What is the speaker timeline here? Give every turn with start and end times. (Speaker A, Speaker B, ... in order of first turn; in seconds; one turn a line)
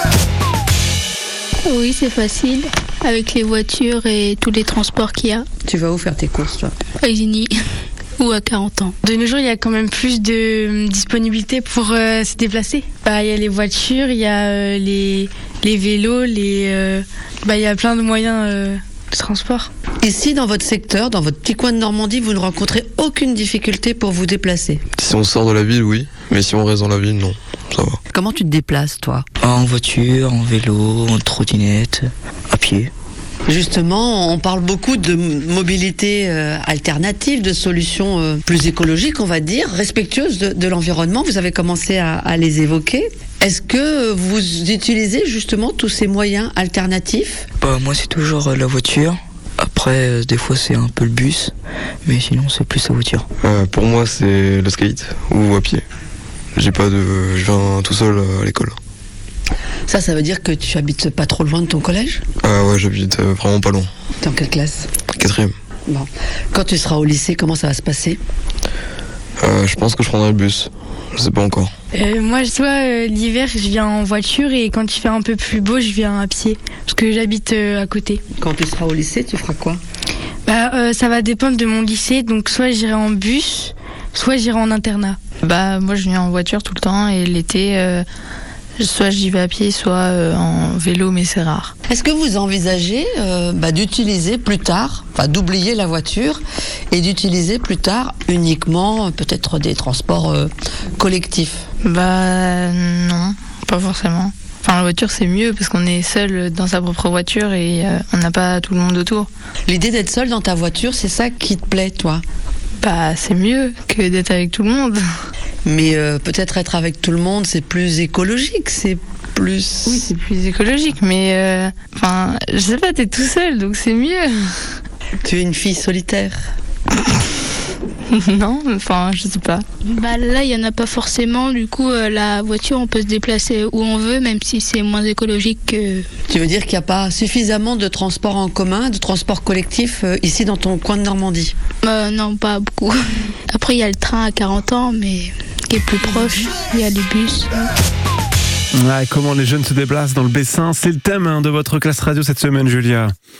Speaker A: 1.6-5.5
Speaker B: 5.7-6.7
Speaker A: 7.0-7.5
Speaker A: 8.2-8.9
Speaker C: 9.0-19.7
Speaker B: 20.0-24.8
Speaker D: 24.9-28.0
Speaker B: 28.1-29.3
Speaker E: 29.4-32.9
Speaker B: 33.5-47.5
Speaker E: 47.6-51.5
Speaker E: 52.0-53.3
Speaker D: 53.4-55.8
Speaker D: 56.5-58.8
Speaker B: 59.9-62.2
Speaker D: 62.4-63.9
Speaker B: 64.2-64.9
Speaker D: 65.1-65.5
Speaker B: 65.9-68.2
Speaker D: 69.4-71.7
Speaker C: 71.9-78.2
Speaker B: 78.4-79.8
Speaker C: 80.5-85.2
Speaker F: 85.4-88.0
Speaker F: 88.8-91.7
Speaker B: 91.9-101.6
Speaker F: 101.8-109.3
Speaker B: 109.7-112.2
Speaker F: 112.8-115.0
Speaker B: 115.7-120.0
Speaker F: 119.9-124.7
Speaker B: 125.2-126.4
Speaker F: 128.1-129.7
Speaker A: 129.8-136.1
Speaker B: 136.3-141.5
Speaker A: 141.8-143.0
Speaker A: 143.5-147.7
Speaker G: 148.7-153.1